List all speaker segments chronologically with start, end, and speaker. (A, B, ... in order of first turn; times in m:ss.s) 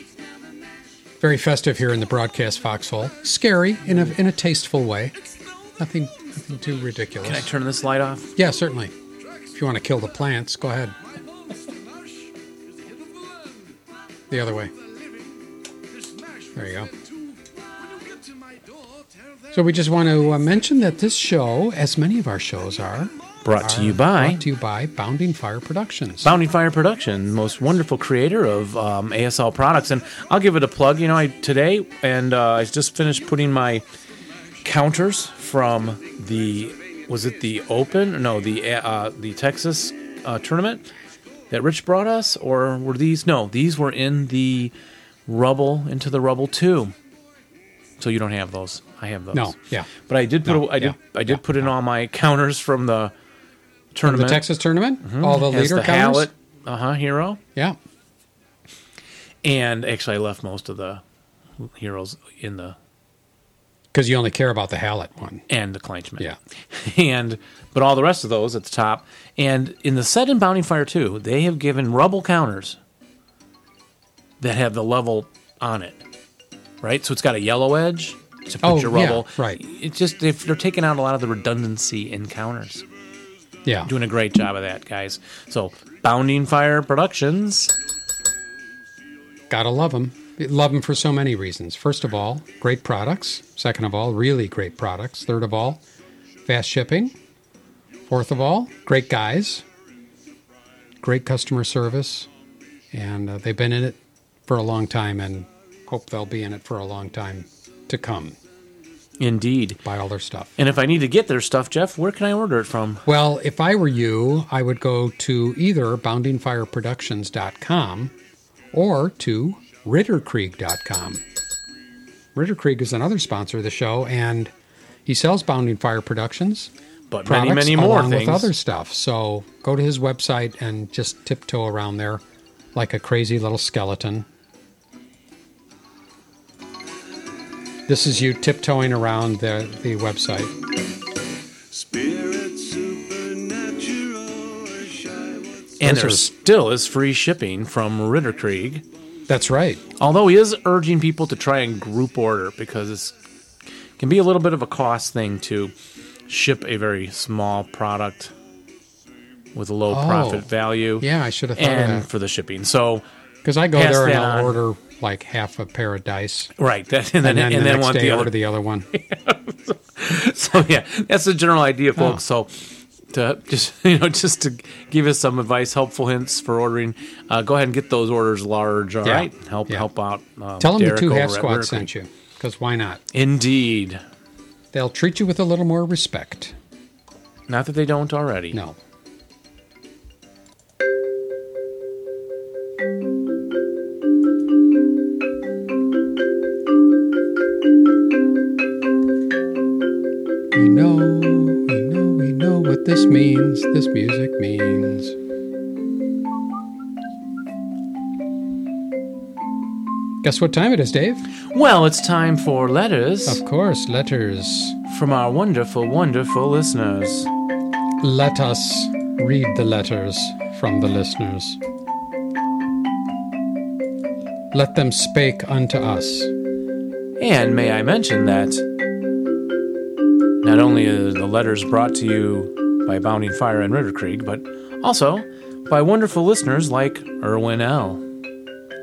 0:01.2-0:05.2 A
0:05.8-0:07.5 A
0:07.2-0:08.3 B
0:08.4-0:08.9 A
0:09.5-0:10.9 A
0:14.3-0:14.7 A
0:16.5-0:16.9 A
0:19.5-0:26.4 A
0:23.4-0:24.4 B
0:26.2-0:33.8 B
0:34.6-0:40.9 B
0:41.5-0:44.7 B
0:45.3-0:46.9 B
0:48.0-0:53.1 B
0:49.3-0:49.9 A
0:50.4-0:51.4 A
0:53.9-0:54.4 B
0:54.0-0:56.3 A
0:55.0-0:57.4 B
0:59.4-1:01.0 B
1:01.6-1:02.8 B
1:03.9-1:05.4 A
1:05.5-1:12.8 B
1:14.4-1:16.0 B
1:16.8-1:22.8 B
1:18.6-1:19.6 A
1:23.6-1:23.9 A
1:23.9-1:27.7 B
1:29.5-1:35.8 A
1:36.4-1:37.1 A
1:38.1-1:39.6 A
1:41.0-1:42.3 A
1:42.9-1:48.4 A
1:49.2-1:49.8 B
1:49.8-1:50.6 A
1:50.6-1:53.1 B
1:53.0-1:58.1 A
1:58.7-2:01.2 A
2:02.3-2:04.5 A
2:05.0-2:06.7 A
2:07.1-2:08.5 B
2:07.2-2:12.2 A
2:12.7-2:14.2 A
2:17.9-2:20.5 A
2:21.7-2:25.7 C
2:25.8-2:28.8 B
2:25.8-2:26.3 A
2:29.3-2:29.8 A
2:30.0-2:33.2 B
2:34.0-2:35.7 B
2:36.3-2:38.3 B
2:39.5-2:43.0 B
2:39.9-2:40.5 A
2:41.0-2:42.1 A
2:43.4-2:46.5 A
2:43.7-2:44.6 B
2:46.6-2:48.3 B
2:47.2-2:48.9 A
2:48.9-3:01.9 B
2:59.0-2:59.9 A
3:00.6-3:03.0 A
3:03.1-3:04.0 B
3:04.7-3:06.5 A
3:07.5-3:08.6 B
3:08.5-3:08.8 A
3:20.5-3:25.2 A
3:30.2-3:31.3 A
3:31.5-3:33.4 B
3:33.2-3:34.8 A
3:34.9-3:37.3 B
3:38.0-3:41.6 A
3:44.5-3:46.3 A
3:47.2-3:48.6 B
3:50.4-3:58.0 B